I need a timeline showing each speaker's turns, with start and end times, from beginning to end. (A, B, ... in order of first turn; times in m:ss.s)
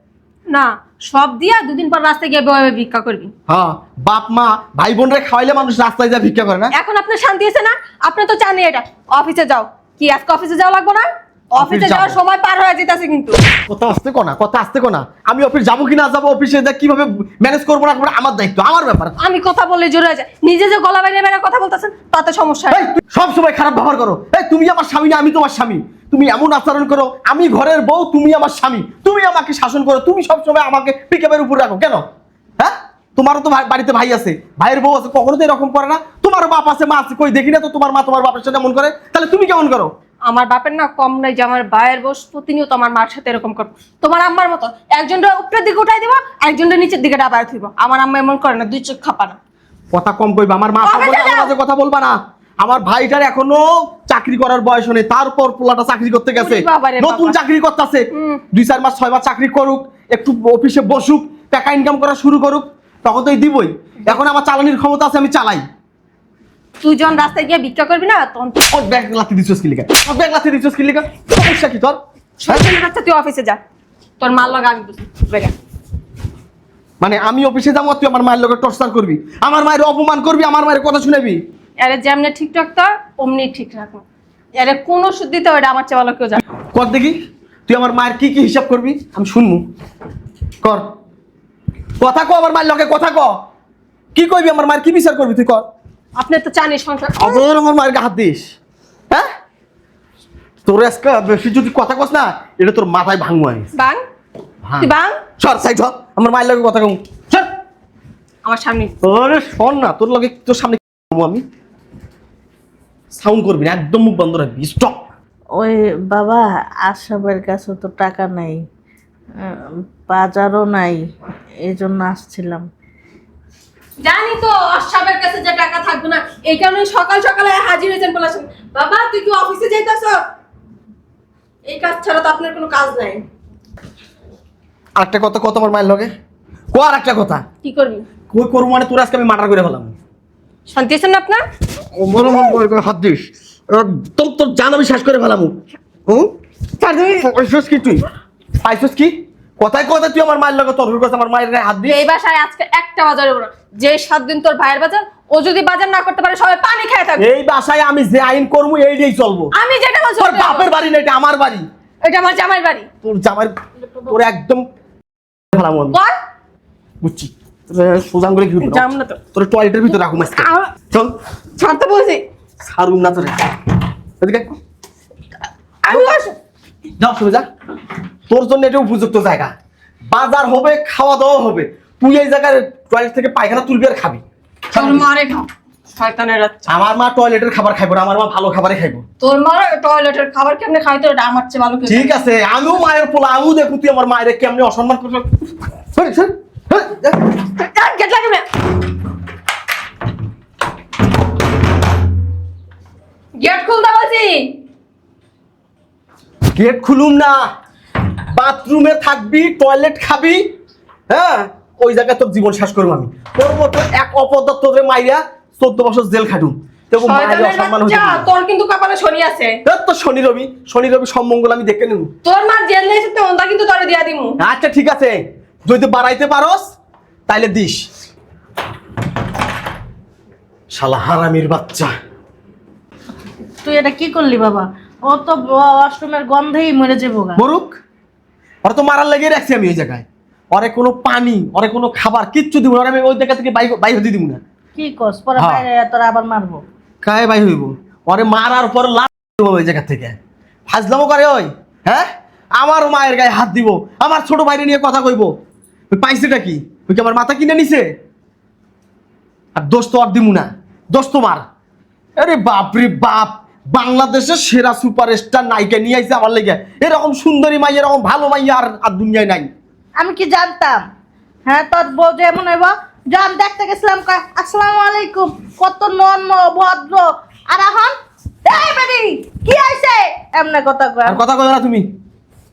0:00.5-0:03.3 A
0:03.5-0:06.7 B
0:06.8-0:13.4 A
0:11.6-0:12.2 B
0:13.7-0:19.1 B
0:19.2-0:22.8 A
0:22.7-0:32.0 B
0:32.6-0:39.9 B
0:40.3-0:49.4 A
0:49.9-1:05.6 B
0:50.8-0:51.5 A
0:56.3-0:57.3 A
0:58.1-0:58.4 A
1:06.8-1:08.6 A
1:08.7-1:12.7 B
1:12.4-1:13.6 A
1:14.2-1:15.5 A
1:17.0-1:21.4 B
1:21.8-1:24.0 A
1:24.6-1:26.4 A
1:26.7-1:29.6 B
1:30.6-1:30.9 B
1:32.0-1:33.4 B
1:34.1-1:35.6 B
1:36.2-1:37.4 A
1:37.2-1:38.4 B
1:40.6-1:43.7 B
1:43.8-1:44.0 A
1:44.6-1:47.5 B
1:44.8-1:45.2 A
1:48.4-1:48.9 A
1:49.0-1:51.4 B
1:53.1-1:55.0 B
1:55.6-1:58.6 C
1:59.4-2:01.0 C
2:01.6-2:02.6 C
2:04.0-2:10.2 A
2:11.7-2:13.2 A
2:15.0-2:16.1 B
2:16.7-2:17.4 B
2:17.6-2:18.0 A
2:18.3-2:19.9 B
2:20.7-2:21.4 A
2:21.9-2:25.5 B
2:26.1-2:28.0 B
2:28.6-2:32.0 B
2:31.9-2:37.2 A
2:37.2-2:39.5 B
2:39.6-2:40.7 A
2:40.2-2:41.6 B
2:42.0-2:42.9 A
2:43.0-2:43.5 B
2:44.0-2:44.6 B
2:45.5-2:46.0 B
2:45.9-2:46.2 A
2:47.0-2:51.1 B
2:48.6-2:49.2 A
2:49.9-2:50.7 A
2:51.6-2:52.2 A
2:52.6-2:53.5 B
2:55.9-2:56.2 B
2:55.9-2:56.3 A
2:57.0-2:57.4 B
2:58.3-2:59.5 B
3:00.1-3:05.1 B
3:04.7-3:06.6 A
3:06.6-3:09.0 B
3:09.2-3:12.2 A
3:11.9-3:15.3 B
3:15.9-3:17.2 B
3:17.3-3:18.4 A
3:23.4-3:24.6 A
3:26.5-3:27.5 B
3:28.3-3:30.4 B
3:31.1-3:38.3 B
3:37.0-3:39.6 A
3:39.6-3:42.1 B
3:42.2-3:44.4 A
3:44.4-3:46.6 B
3:47.3-3:47.8 B
3:50.7-3:51.9 B
3:53.6-3:57.4 C
3:57.4-3:57.8 B
3:58.6-4:04.4 B
4:04.7-4:06.6 C
4:05.4-4:05.6 B
4:07.0-4:10.1 B
4:10.7-4:12.1 B
4:12.6-4:15.3 B
4:15.9-4:17.9 B
4:19.5-4:21.4 B
4:22.2-4:29.5 B
4:30.0-4:30.8 C
4:31.4-4:41.2 C
4:41.0-4:41.9 B